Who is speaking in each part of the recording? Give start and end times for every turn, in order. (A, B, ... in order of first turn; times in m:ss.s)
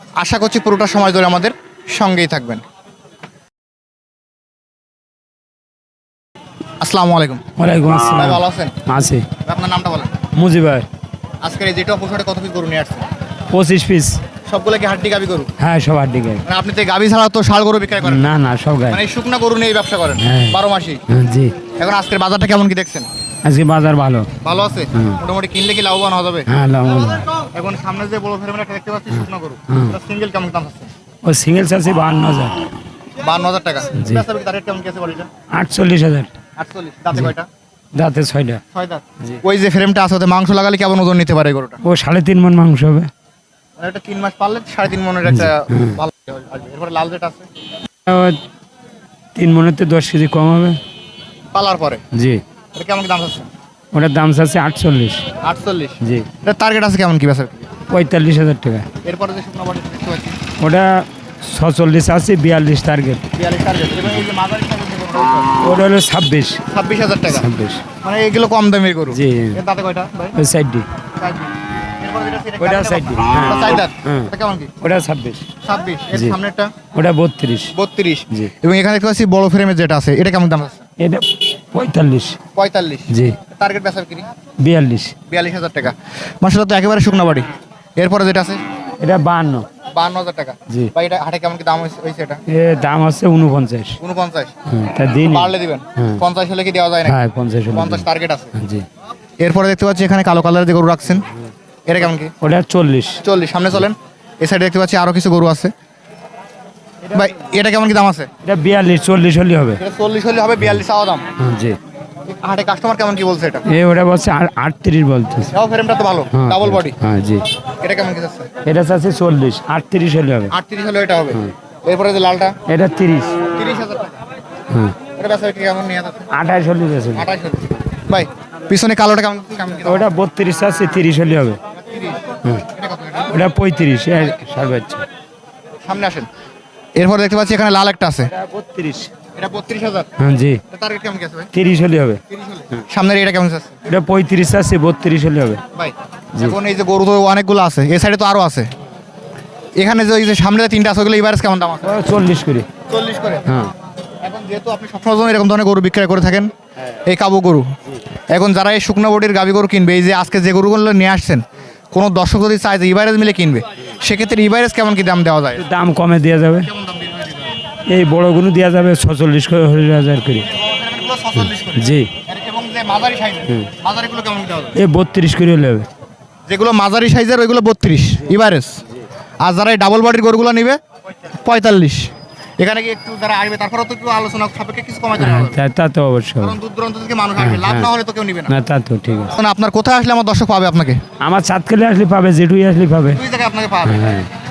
0:00.2-0:02.6 A
0:06.8-0:07.4 A
0:07.6-0:09.3 B
0:08.1-0:08.8 A
0:09.4-0:10.2 A
0:10.3-0:10.9 B
0:11.4-0:13.0 A
0:13.5-0:14.2 B
0:14.4-0:15.5 A
0:15.6-0:16.4 B
0:16.4-0:18.3 A
0:18.0-0:19.0 B
0:18.9-0:21.0 A
0:20.2-0:21.5 B
0:21.8-0:23.1 A
0:23.4-0:24.3 B
0:24.4-0:26.5 A
0:24.9-0:25.2 B
0:26.5-0:27.2 B
0:27.4-0:30.9 A
0:29.7-0:30.0 B
0:31.2-0:32.7 B
0:33.2-0:35.3 A
0:34.0-0:34.2 B
0:35.5-0:36.3 B
0:36.6-0:37.5 A
0:37.9-0:38.6 B
0:38.7-0:41.8 A
0:41.8-0:43.1 B
0:43.8-0:47.4 A
0:45.2-0:46.0 B
0:48.0-0:48.4 B
0:49.3-0:50.8 B
0:51.5-0:52.0 A
0:52.1-0:52.4 B
0:52.7-0:53.5 A
0:53.9-0:55.2 B
0:55.4-0:57.7 A
0:56.0-0:56.3 B
0:57.9-0:58.9 B
0:59.0-1:00.4 A
1:00.6-1:03.2 B
1:03.3-1:05.6 A
1:05.6-1:06.6 B
1:06.7-1:07.5 A
1:07.3-1:07.8 B
1:08.0-1:10.4 A
1:09.1-1:09.6 B
1:10.3-1:10.9 B
1:11.2-1:14.7 A
1:12.6-1:15.4 B
1:15.6-1:16.7 A
1:16.9-1:17.7 B
1:17.7-1:20.8 A
1:21.0-1:22.4 B
1:22.5-1:24.3 A
1:23.1-1:23.4 B
1:24.6-1:25.1 B
1:25.3-1:28.6 A
1:29.0-1:29.7 B
1:29.9-1:32.4 A
1:32.5-1:34.0 B
1:34.0-1:34.5 A
1:34.7-1:36.2 B
1:35.3-1:37.2 A
1:37.0-1:38.8 B
1:37.7-1:38.5 A
1:39.4-1:41.3 A
1:41.9-1:42.3 A
1:42.4-1:43.2 B
1:43.2-1:45.7 A
1:47.1-1:48.3 A
1:48.4-1:49.8 B
1:49.8-1:51.3 A
1:51.4-1:51.8 B
1:52.3-1:53.6 A
1:53.7-1:55.5 B
1:55.5-1:57.0 A
1:56.3-1:57.4 B
1:57.8-1:58.5 A
1:58.6-2:00.5 B
2:00.5-2:02.6 A
2:02.7-2:03.4 B
2:03.5-2:04.2 A
2:04.7-2:05.0 B
2:05.2-2:06.3 A
2:06.3-2:07.3 B
2:07.1-2:10.1 A
2:09.8-2:11.6 B
2:11.7-2:13.4 A
2:13.3-2:15.0 B
2:15.8-2:16.3 A
2:17.0-2:18.3 A
2:18.3-2:19.1 B
2:19.3-2:20.1 A
2:20.2-2:20.6 B
2:20.7-2:21.5 A
2:21.5-2:22.2 B
2:22.3-2:23.8 A
2:23.8-2:25.6 B
2:25.7-2:28.7 A
2:29.8-2:32.0 A
2:31.8-2:32.7 B
2:32.9-2:33.6 A
2:34.2-2:36.5 A
2:37.0-2:37.7 A
2:38.3-2:45.6 A
2:45.6-2:46.7 B
2:46.6-2:47.6 A
2:47.9-2:50.5 B
2:50.4-2:54.8 A
2:51.7-2:52.1 B
2:54.7-2:55.9 B
2:56.5-2:58.8 A
2:59.4-3:00.8 A
3:01.3-3:05.6 A
3:05.2-3:06.6 B
3:06.4-3:08.6 A
3:07.4-3:07.9 B
3:08.5-3:09.3 B
3:09.3-3:11.0 A
3:11.2-3:13.2 B
3:13.1-3:14.0 A
3:13.8-3:14.3 B